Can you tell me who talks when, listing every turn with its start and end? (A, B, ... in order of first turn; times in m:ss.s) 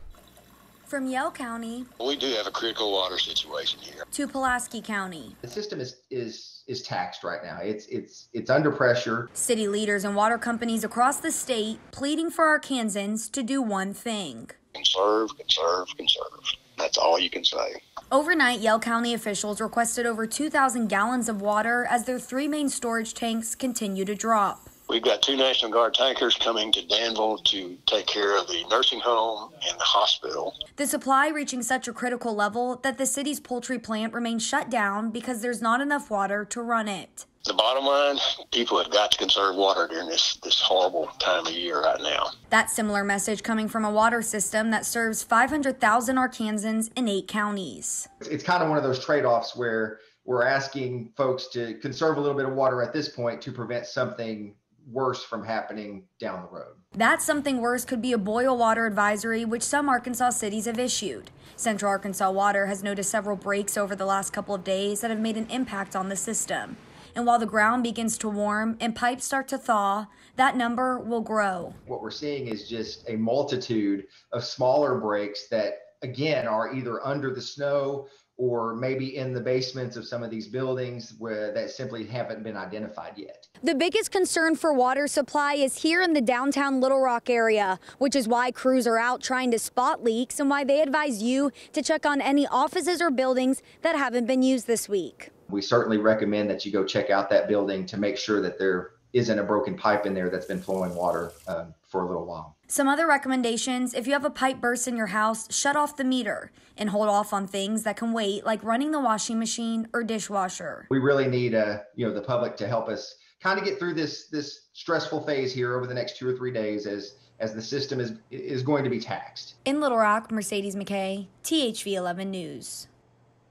0:00.9-0:01.9 A
0:02.0-0:04.0 B
0:04.1-0:05.4 A
0:05.4-0:09.3 C
0:09.4-0:14.6 A
0:14.8-0:17.8 B
0:18.1-0:24.7 A
0:24.9-0:30.6 B
0:30.8-0:37.3 A
0:37.4-0:42.3 B
0:42.5-0:48.1 A
0:48.2-0:56.8 C
0:57.0-1:11.8 A
1:11.9-1:23.5 C
1:23.6-1:35.3 A
1:35.5-1:42.6 C
1:42.7-1:50.9 A
1:50.9-1:59.5 C
1:59.7-2:02.9 A